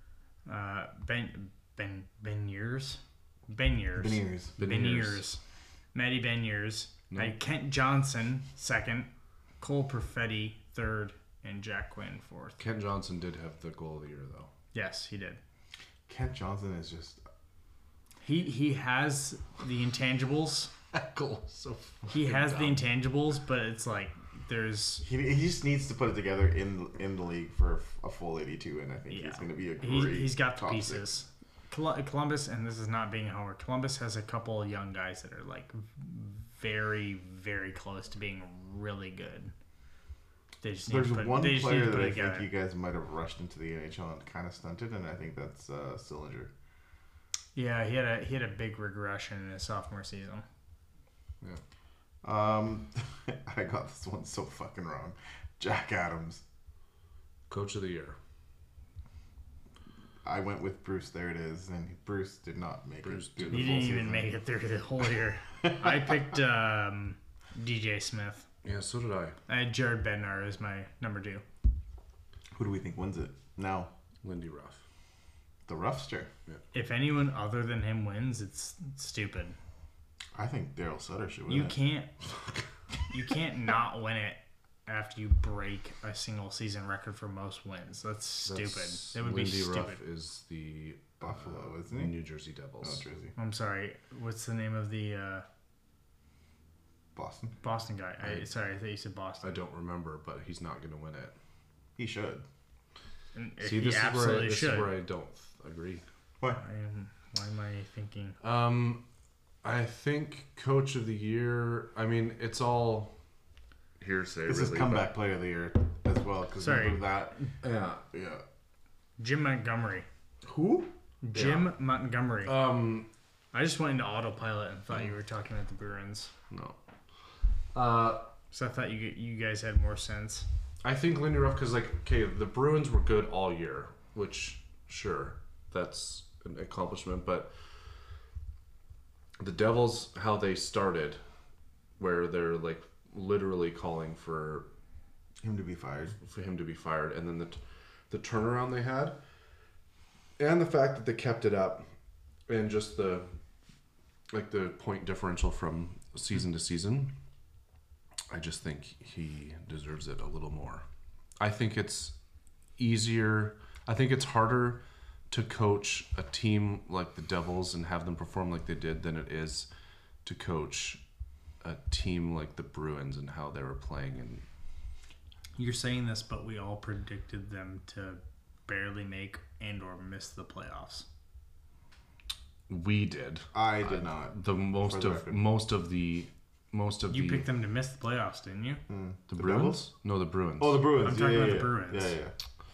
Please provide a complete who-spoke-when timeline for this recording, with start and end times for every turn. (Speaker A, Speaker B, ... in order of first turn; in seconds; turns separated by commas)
Speaker A: 0.5-5.4, Speaker B: 4.0-4.5, Speaker C: 4.6-5.3, Speaker A: 5.9-12.6, Speaker C: 7.1-7.3, Speaker C: 12.6-14.5, Speaker A: 14.7-15.4, Speaker B: 16.1-17.2, Speaker A: 18.2-20.7, Speaker C: 20.9-22.9, Speaker A: 22.1-25.0, Speaker B: 25.0-31.1, Speaker A: 29.1-39.5, Speaker A: 40.6-42.5, Speaker B: 40.9-46.5, Speaker A: 47.5-50.5, Speaker B: 52.2-56.4, Speaker C: 57.5-58.2, Speaker B: 60.2-64.3, Speaker C: 63.0-64.0, Speaker A: 63.5-68.5, Speaker C: 68.6-69.4, Speaker A: 69.5-71.4, Speaker B: 72.5-73.9, Speaker C: 74.2-74.8, Speaker B: 75.7-76.3, Speaker A: 76.7-79.6, Speaker B: 80.3-81.8, Speaker A: 81.5-82.1, Speaker A: 83.1-90.0, Speaker C: 88.5-93.0, Speaker B: 91.2-92.2, Speaker B: 92.8-93.3, Speaker A: 93.4-95.5, Speaker B: 97.2-97.6, Speaker A: 97.6-99.6, Speaker C: 99.4-101.4, Speaker B: 102.0-102.5, Speaker A: 103.3-104.9, Speaker C: 103.6-106.0, Speaker A: 106.5-108.4, Speaker C: 108.4-109.0, Speaker C: 109.6-113.1, Speaker C: 114.0-115.1, Speaker B: 114.5-117.5, Speaker A: 116.6-117.4, Speaker C: 117.6-118.0, Speaker B: 118.1-118.4, Speaker A: 119.2-120.1, Speaker B: 120.4-120.9, Speaker A: 121.2-122.6, Speaker C: 121.3-121.7, Speaker C: 122.5-123.1, Speaker A: 123.5-126.3, Speaker C: 126.5-126.8, Speaker C: 127.7-128.3, Speaker A: 128.5-130.5, Speaker C: 130.8-137.7, Speaker C: 139.4-141.2, Speaker C: 142.0-144.7, Speaker B: 145.4-146.2, Speaker C: 146.2-149.2, Speaker C: 150.4-151.9, Speaker C: 152.5-153.3, Speaker C: 154.3-157.1, Speaker C: 158.3-160.8, Speaker C: 161.4-162.2, Speaker C: 162.8-169.7, Speaker C: 170.2-171.0, Speaker C: 171.6-174.4, Speaker A: 175.6-181.1, Speaker C: 182.7-187.5, Speaker B: 183.5-185.4, Speaker A: 187.1-188.8, Speaker B: 188.9-189.8, Speaker C: 189.3-190.8, Speaker B: 190.6-192.3, Speaker A: 191.0-192.2